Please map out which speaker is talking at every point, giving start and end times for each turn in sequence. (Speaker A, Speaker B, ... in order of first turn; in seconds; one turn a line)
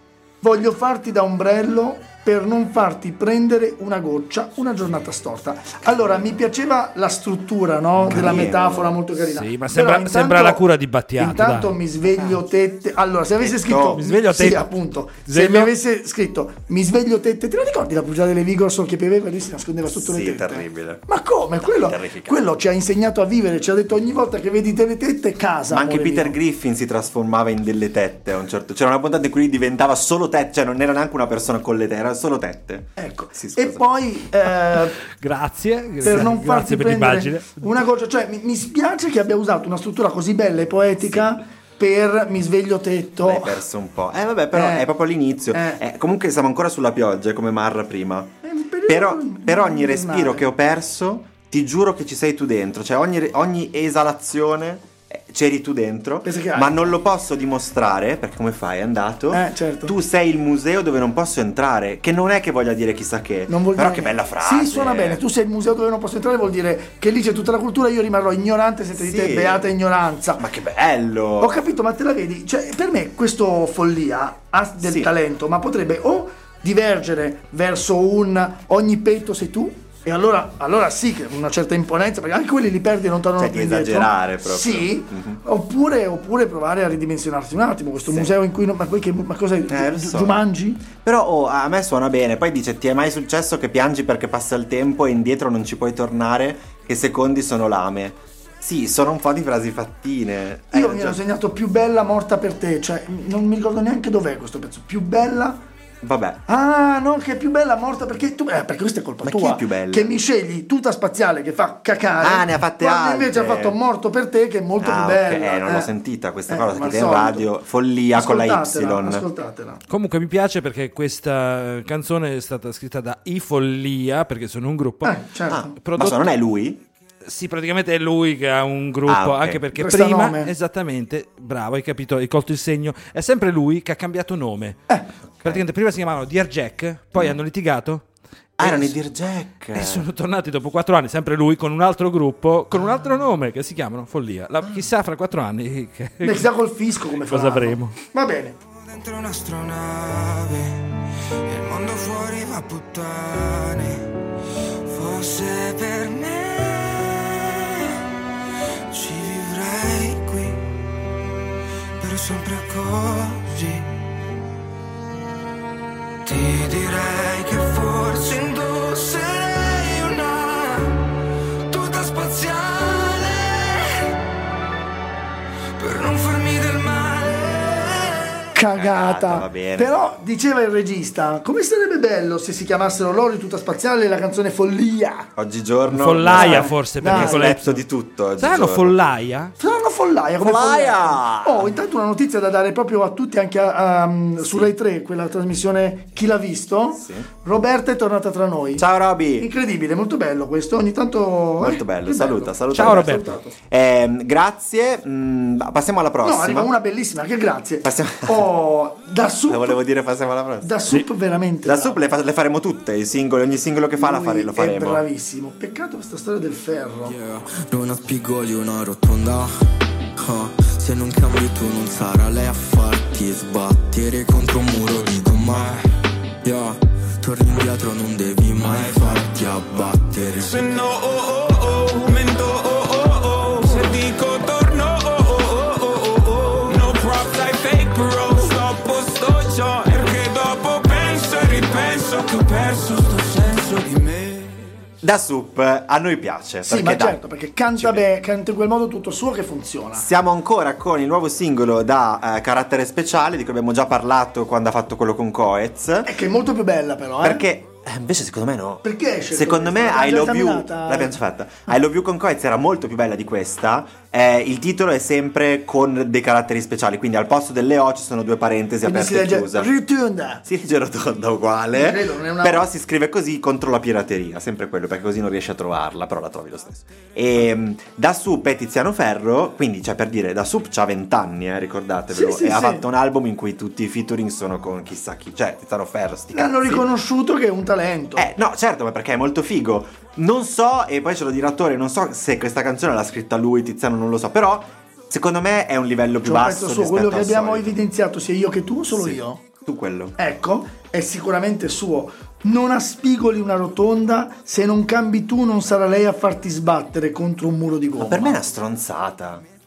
Speaker A: 0.4-10.7
Speaker B: 5.8-6.4
Speaker B: 8.0-9.0
Speaker C: 9.2-11.8
Speaker A: 11.2-26.4
Speaker B: 13.4-14.0
Speaker C: 14.0-14.7
Speaker C: 15.3-15.7
Speaker B: 19.9-21.0
Speaker B: 21.6-22.4
Speaker B: 25.7-33.9
Speaker A: 33.0-35.0
Speaker C: 35.2-37.6
Speaker A: 36.0-43.6
Speaker B: 41.0-41.4
Speaker B: 43.2-48.4
Speaker A: 44.5-44.9
Speaker A: 45.5-45.8
Speaker A: 48.4-50.5
Speaker B: 48.9-65.2
Speaker A: 56.2-57.0
Speaker A: 59.3-60.0
Speaker A: 63.5-70.5
Speaker B: 69.0-69.7
Speaker B: 70.4-71.7
Speaker A: 71.4-90.8
Speaker B: 74.8-75.1
Speaker B: 83.4-85.4
Speaker B: 88.1-88.3
Speaker B: 89.7-101.2
Speaker A: 100.7-105.6
Speaker B: 106.0-106.4
Speaker A: 106.5-115.9
Speaker B: 109.2-110.2
Speaker B: 112.2-113.8
Speaker B: 114.8-119.3
Speaker A: 116.5-117.5
Speaker A: 118.2-119.8
Speaker C: 119.9-125.3
Speaker A: 125.0-125.7
Speaker B: 125.5-126.8
Speaker C: 125.8-126.3
Speaker C: 127.2-134.9
Speaker B: 129.1-129.6
Speaker A: 129.8-130.5
Speaker C: 135.4-138.1
Speaker B: 138.6-140.1
Speaker C: 139.8-146.5
Speaker A: 146.2-148.6
Speaker C: 147.3-147.9
Speaker D: 148.8-154.2
Speaker D: 154.9-158.0
Speaker D: 158.9-160.6
Speaker D: 162.0-164.0
Speaker D: 166.2-171.2
Speaker D: 171.7-174.1
Speaker D: 175.8-178.4
Speaker A: 178.6-185.3
Speaker B: 178.7-179.9
Speaker B: 185.4-189.0
Speaker C: 185.9-187.8
Speaker A: 186.3-187.5
Speaker C: 188.4-189.5
Speaker A: 189.6-198.8
Speaker B: 190.4-191.8
Speaker B: 194.4-194.7
Speaker B: 197.0-197.3
Speaker B: 198.8-199.5
Speaker A: 199.4-203.6
Speaker B: 201.6-206.7
Speaker C: 202.7-203.3
Speaker A: 206.2-209.8
Speaker B: 207.8-208.5
Speaker B: 209.5-210.8
Speaker A: 210.6-212.0
Speaker B: 211.7-215.0
Speaker A: 214.0-217.2
Speaker E: 217.1-219.6
Speaker E: 220.2-225.9
Speaker E: 226.4-230.7
Speaker D: 228.7-229.0
Speaker D: 230.4-244.6
Speaker B: 245.0-247.2
Speaker A: 246.7-250.1
Speaker B: 247.8-248.1
Speaker B: 249.9-256.1
Speaker A: 256.1-257.5
Speaker B: 257.2-269.7
Speaker A: 258.8-261.2
Speaker A: 268.9-270.4
Speaker B: 270.4-286.9
Speaker A: 271.7-272.7
Speaker A: 282.1-282.9
Speaker A: 286.3-288.3
Speaker B: 288.2-297.8
Speaker A: 296.2-299.4
Speaker B: 298.9-300.2
Speaker A: 300.2-308.4
Speaker B: 308.0-309.4